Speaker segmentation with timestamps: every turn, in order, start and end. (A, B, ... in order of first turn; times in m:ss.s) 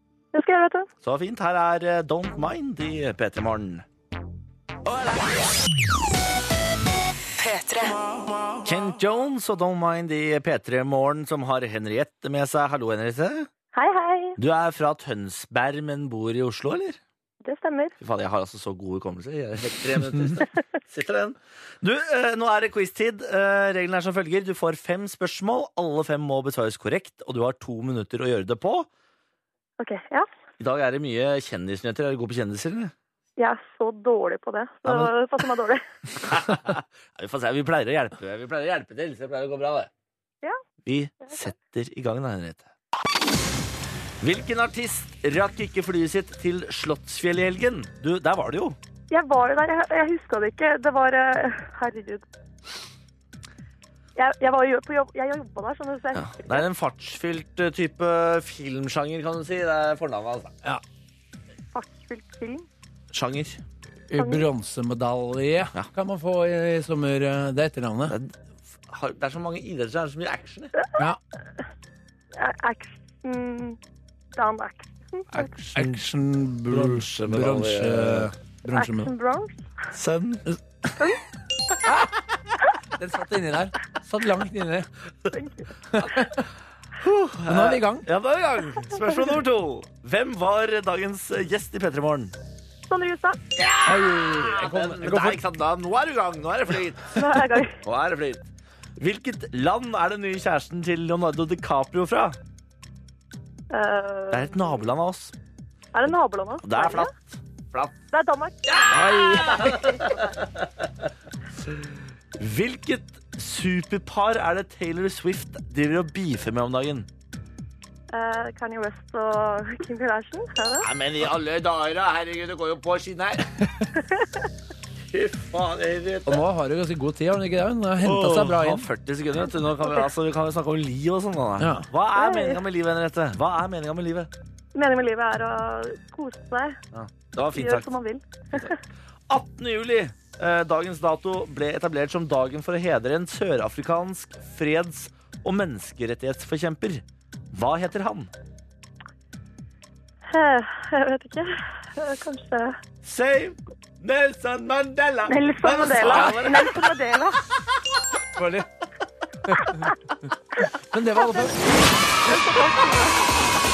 0:00.3-0:00.9 A
0:01.0-0:03.9 B
0:08.6-0:13.5 B
0:13.7-0:14.4 A
0:14.4-0:17.0 B
0:17.4-0:17.9 A
0:18.0-0:28.9 B
0:29.8-0:30.3 A
0:30.6-0:32.9 B
0:33.4-0:35.8 A
0:34.8-0:35.1 B
0:36.2-0:39.9 B
0:40.8-0:42.7 B
0:44.2-0:48.8 B
0:49.1-0:52.3 A
0:54.2-0:56.7 A
0:56.2-1:00.5 B
1:01.7-1:02.7 A
1:03.1-1:03.6 B
1:04.1-1:08.2 C
1:04.2-1:04.5 A
1:08.1-1:08.3 B
1:08.9-1:10.8 B
1:12.4-1:13.8 A
1:14.4-1:15.6 A
1:15.3-1:16.0 B
1:15.7-1:19.1 C
1:16.7-1:18.3 B
1:18.7-1:19.6 A
1:19.9-1:20.5 B
1:23.0-1:24.9 C
1:25.3-1:25.7 A
1:25.9-1:26.4 C
1:27.0-1:32.4 B
1:27.5-1:28.1 C
1:32.9-1:33.4 A
1:33.6-1:42.4 B
1:33.8-1:35.4 C
1:37.1-1:37.8 A
1:43.7-1:44.7 A
1:44.3-1:45.4 B
1:45.9-1:47.1 A
1:46.6-1:48.0 B
1:48.1-1:50.4 A
1:48.7-1:50.6 B
1:48.9-1:49.6 C
1:52.4-1:57.1 B
1:58.1-2:00.9 A
2:00.8-2:03.5 B
2:03.6-2:03.9 C
2:04.0-2:04.5 A
2:05.1-2:06.4 B
2:06.3-2:08.9 C
2:08.0-2:14.3 B
2:09.8-2:10.1 A
2:11.6-2:11.9 C
2:12.1-2:12.6 A
2:14.8-2:16.8 A
2:16.9-2:17.9 B
2:17.5-2:18.8 A
2:19.3-2:28.3 B
2:30.3-2:32.8 A
2:33.0-2:36.9 B
2:35.3-2:37.4 A
2:38.4-2:38.7 C
2:39.4-2:39.9 C
2:40.8-2:41.6 C
2:41.2-2:41.6 A
2:42.2-2:43.2 A